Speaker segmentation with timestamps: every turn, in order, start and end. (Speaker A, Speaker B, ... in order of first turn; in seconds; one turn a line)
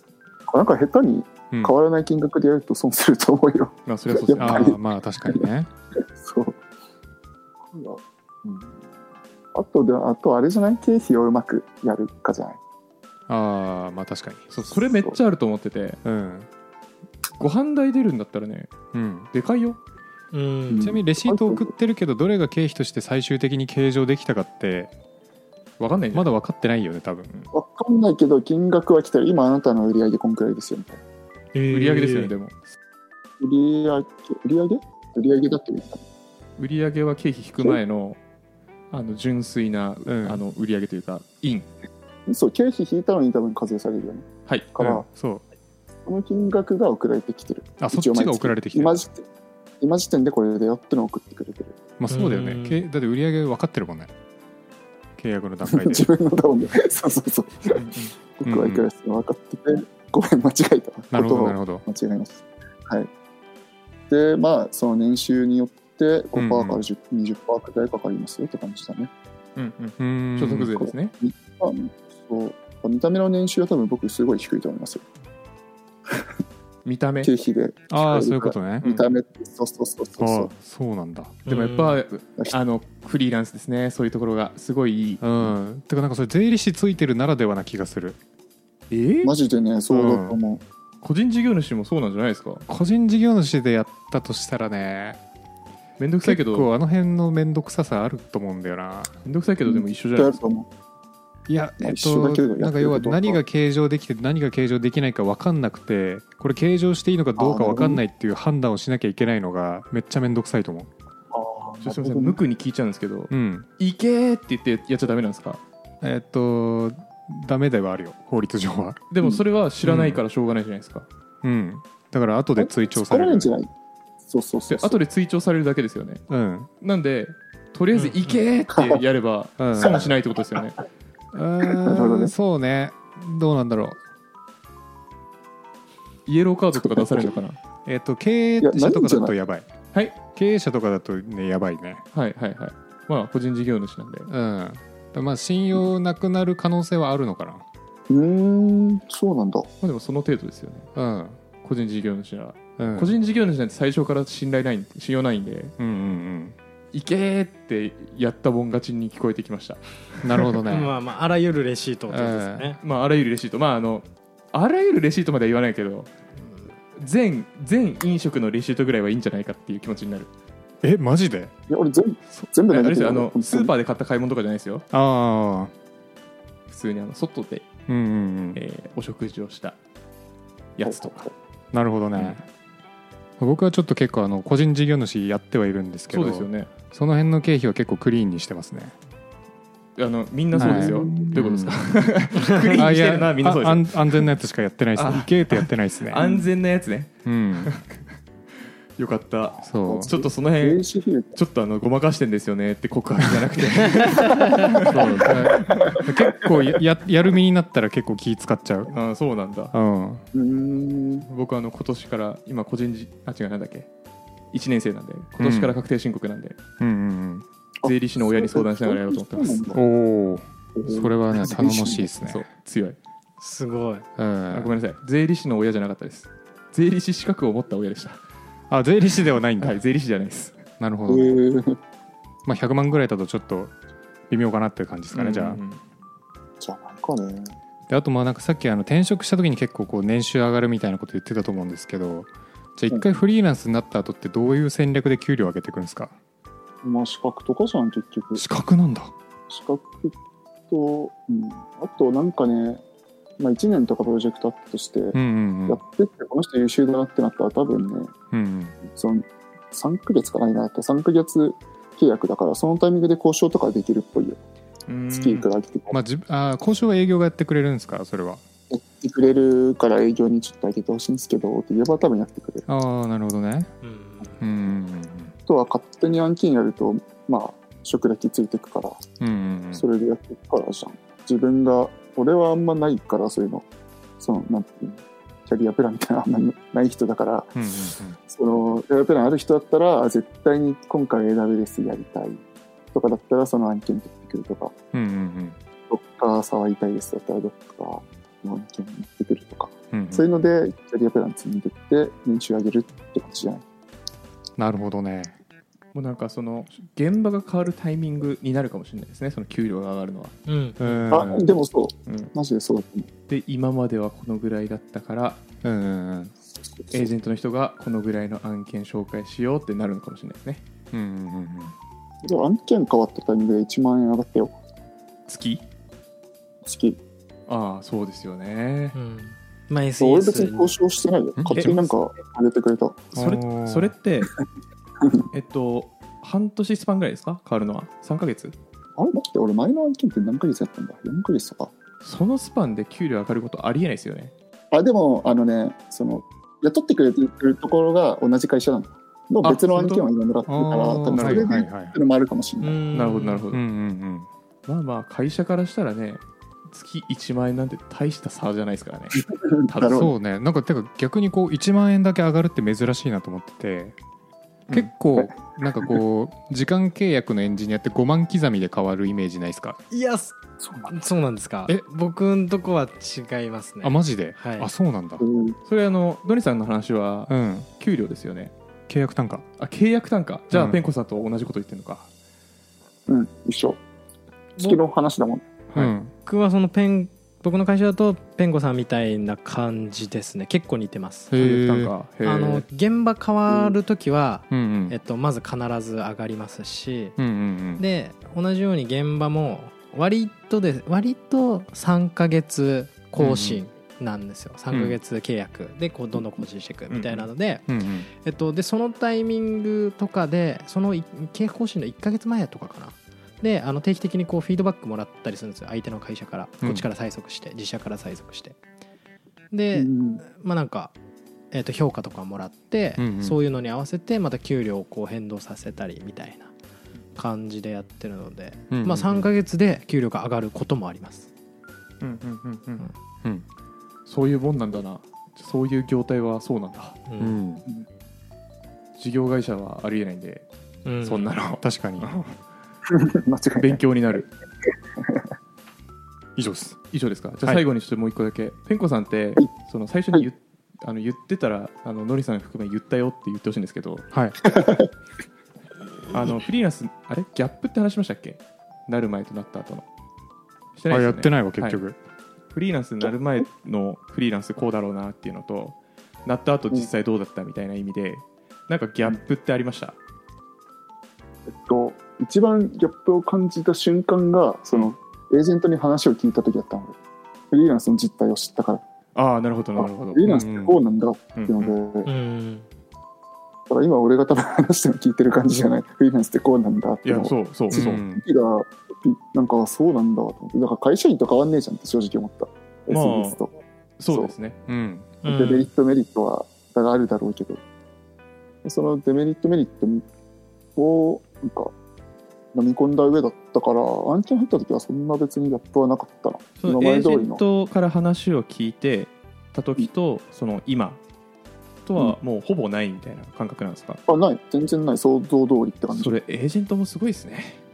Speaker A: 0.5-5.5
Speaker B: 3.9-4.7
Speaker C: 4.4-5.7
Speaker A: 6.0-6.6
Speaker A: 7.6-8.8
Speaker A: 9.5-12.6
Speaker C: 13.3-14.4
Speaker B: 14.5-16.0
Speaker A: 14.9-15.2
Speaker C: 16.0-16.5
Speaker B: 17.4-18.7
Speaker C: 18.9-19.3
Speaker B: 19.3-19.8
Speaker D: 20.3-21.0
Speaker A: 20.7-21.7
Speaker C: 20.8-24.9
Speaker B: 25.8-26.3
Speaker C: 26.1-27.3
Speaker A: 27.5-31.0
Speaker D: 31.5-32.3
Speaker B: 31.7-32.6
Speaker A: 33.4-36.0
Speaker B: 36.6-38.2
Speaker B: 38.9-41.7
Speaker C: 40.1-40.4
Speaker A: 42.2-45.0
Speaker C: 44.8-45.4
Speaker A: 46.0-49.2
Speaker C: 47.8-49.0
Speaker A: 49.8-51.8
Speaker C: 52.0-54.1
Speaker D: 52.1-52.8
Speaker C: 55.2-56.1
Speaker A: 55.6-63.1
Speaker B: 57.7-58.1
Speaker C: 58.4-58.9
Speaker C: 61.1-61.9
Speaker A: 64.1-69.1
Speaker C: 66.3-66.8
Speaker B: 69.6-71.1
Speaker C: 70.0-70.9
Speaker A: 71.2-75.0
Speaker B: 76.8-77.3
Speaker A: 77.2-80.5
Speaker C: 77.9-78.9
Speaker B: 78.8-79.1
Speaker C: 80.2-81.4
Speaker D: 81.5-82.0
Speaker B: 81.5-85.5
Speaker C: 85.2-88.2
Speaker B: 88.9-89.3
Speaker A: 89.2-90.6
Speaker C: 89.9-90.4
Speaker B: 91.0-92.6
Speaker C: 92.7-95.2
Speaker B: 96.0-96.7
Speaker C: 96.2-99.1
Speaker B: 99.2-100.4
Speaker A: 99.6-100.7
Speaker C: 101.5-110.9
Speaker A: 101.8-103.4
Speaker A: 107.4-108.0
Speaker A: 111.3-112.4
Speaker B: 111.8-115.6
Speaker C: 113.3-113.7
Speaker C: 116.0-119.0
Speaker B: 119.1-121.1
Speaker C: 119.8-120.2
Speaker C: 121.4-123.5
Speaker A: 122.6-123.7
Speaker A: 124.2-125.0
Speaker B: 124.7-126.2
Speaker C: 126.3-126.7
Speaker B: 126.8-130.8
Speaker A: 128.7-129.0
Speaker C: 129.6-130.0
Speaker A: 129.8-130.1
Speaker C: 131.3-134.0
Speaker A: 131.7-132.3
Speaker B: 136.2-137.6
Speaker A: 136.8-137.3
Speaker C: 137.8-139.7
Speaker A: 138.6-139.3
Speaker C: 140.2-142.0
Speaker B: 142.1-144.3
Speaker C: 144.3-147.6
Speaker A: 148.1-149.7
Speaker B: 149.8-150.9
Speaker C: 150.9-151.4
Speaker B: 151.6-155.7
Speaker C: 152.8-153.1
Speaker C: 155.8-156.6
Speaker B: 156.9-160.6
Speaker C: 160.2-160.9
Speaker D: 160.6-162.8
Speaker C: 162.1-162.7
Speaker B: 162.8-166.1
Speaker B: 166.9-170.3
Speaker C: 170.8-171.5
Speaker A: 171.7-173.7
Speaker B: 172.7-174.8
Speaker C: 174.9-175.7
Speaker B: 176.7-177.7
Speaker C: 177.9-178.6
Speaker B: 178.6-179.8
Speaker B: 180.8-181.2
Speaker A: 180.8-181.3
Speaker C: 181.7-182.4
Speaker C: 183.4-188.9
Speaker B: 186.1-186.7
Speaker B: 190.0-194.3
Speaker A: 190.5-191.4
Speaker C: 190.6-191.8
Speaker C: 192.5-196.2
Speaker B: 194.9-198.1
Speaker C: 197.2-197.7
Speaker B: 199.0-206.0
Speaker C: 199.6-200.1
Speaker A: 199.9-201.4
Speaker C: 204.9-208.9
Speaker A: 205.8-206.6
Speaker B: 208.9-209.7
Speaker C: 209.7-210.2
Speaker A: 210.3-211.2
Speaker B: 211.2-213.9
Speaker B: 214.5-216.6
Speaker C: 215.4-215.8
Speaker C: 216.8-217.4
Speaker B: 217.8-219.7
Speaker A: 217.8-219.8
Speaker C: 219.7-222.4
Speaker A: 220.7-222.1
Speaker B: 222.2-223.0
Speaker D: 223.4-224.1
Speaker C: 224.2-224.7
Speaker B: 224.5-228.2
Speaker C: 228.7-229.8
Speaker B: 229.6-230.6
Speaker C: 230.8-231.4
Speaker A: 231.1-231.8
Speaker C: 232.4-233.7
Speaker C: 234.3-235.6
Speaker B: 235.1-235.8
Speaker A: 236.6-237.6
Speaker C: 237.9-246.1
Speaker A: 246.8-248.4
Speaker C: 248.4-249.1
Speaker A: 249.5-250.2
Speaker A: 250.7-252.8
Speaker A: 253.4-258.1
Speaker C: 255.1-255.8
Speaker C: 258.3-258.8
Speaker A: 258.9-264.4
Speaker B: 264.9-265.5
Speaker A: 265.1-266.0
Speaker C: 265.9-268.4
Speaker A: 268.7-272.6
Speaker C: 272.7-273.7
Speaker D: 273.8-274.4
Speaker C: 274.4-275.3
Speaker A: 275.5-279.0
Speaker C: 279.2-279.8
Speaker A: 279.7-283.6
Speaker A: 284.2-287.5
Speaker C: 287.6-288.2
Speaker A: 288.3-294.7
Speaker C: 294.9-295.6
Speaker A: 295.9-303.6
Speaker C: 299.9-300.3
Speaker C: 304.6-305.4
Speaker B: 305.9-310.4
Speaker D: 310.5-310.8
Speaker C: 310.8-311.5
Speaker A: 311.1-313.1
Speaker B: 312.1-312.3
Speaker B: 313.3-315.4
Speaker C: 315.6-316.3
Speaker B: 316.9-320.6
Speaker C: 320.9-321.7
Speaker A: 322.2-324.5
Speaker B: 325.3-325.6
Speaker A: 326.6-327.0
Speaker B: 327.5-329.0
Speaker D: 328.9-330.7
Speaker A: 330.0-333.1
Speaker C: 331.4-331.8
Speaker B: 331.5-331.8
Speaker C: 333.1-333.9
Speaker B: 333.1-334.3
Speaker B: 335.3-338.6
Speaker A: 338.9-341.7
Speaker B: 342.0-344.3
Speaker A: 344.7-352.8
Speaker B: 349.4-350.1
Speaker C: 350.5-351.9
Speaker B: 351.1-351.5
Speaker D: 352.6-353.4
Speaker B: 352.9-353.6
Speaker C: 353.5-354.3
Speaker B: 354.7-360.1
Speaker A: 359.3-360.1
Speaker C: 359.9-363.9
Speaker C: 364.7-369.8
Speaker D: 369.9-370.4
Speaker A: 370.6-370.9
Speaker D: 370.9-374.7
Speaker C: 373.8-375.2
Speaker A: 375.2-375.6
Speaker B: 375.6-378.5
Speaker C: 377.3-377.7
Speaker C: 378.9-379.4
Speaker B: 379.6-382.1
Speaker C: 380.5-380.8
Speaker A: 383.1-383.8
Speaker A: 384.6-385.5
Speaker B: 385.7-385.9
Speaker C: 385.7-386.1
Speaker D: 386.2-391.3
Speaker C: 391.3-391.9
Speaker B: 391.4-392.6
Speaker D: 392.2-397.2
Speaker A: 393.5-393.8
Speaker C: 394.5-394.9
Speaker C: 397.2-397.8
Speaker D: 397.8-418.6
Speaker C: 403.2-403.6
Speaker C: 404.7-405.0
Speaker A: 406.1-406.4
Speaker B: 406.9-407.3
Speaker C: 407.7-408.1
Speaker D: 419.5-420.9
Speaker A: 419.7-420.2
Speaker D: 421.5-426.5
Speaker C: 423.0-423.4
Speaker D: 427.1-431.3
Speaker C: 428.7-429.3
Speaker B: 432.0-432.9
Speaker B: 434.1-437.0
Speaker D: 437.1-437.4
Speaker C: 437.2-437.6
Speaker B: 439.0-440.4
Speaker D: 440.9-441.2
Speaker B: 441.0-442.4
Speaker C: 441.6-442.1
Speaker A: 442.9-444.2
Speaker B: 443.6-444.3
Speaker A: 445.0-445.3
Speaker C: 446.4-446.8
Speaker B: 446.9-454.1
Speaker C: 454.1-454.4
Speaker A: 454.5-454.9
Speaker B: 456.1-459.9
Speaker B: 460.8-461.8
Speaker C: 460.9-461.9
Speaker B: 462.5-470.0
Speaker A: 471.5-477.0
Speaker A: 477.5-478.8
Speaker B: 479.1-480.4
Speaker A: 479.8-482.1
Speaker C: 480.2-480.8
Speaker B: 481.4-481.8
Speaker D: 482.1-482.6
Speaker A: 483.7-493.5
Speaker B: 487.1-488.0
Speaker C: 487.7-488.2
Speaker B: 492.9-493.4
Speaker B: 494.0-494.6
Speaker C: 494.7-495.1
Speaker D: 495.2-495.7
Speaker A: 495.2-497.6
Speaker A: 498.6-500.1
Speaker A: 500.8-501.7
Speaker A: 502.5-507.4
Speaker B: 506.6-511.0
Speaker B: 511.9-514.0
Speaker A: 514.1-516.2
Speaker B: 515.9-517.6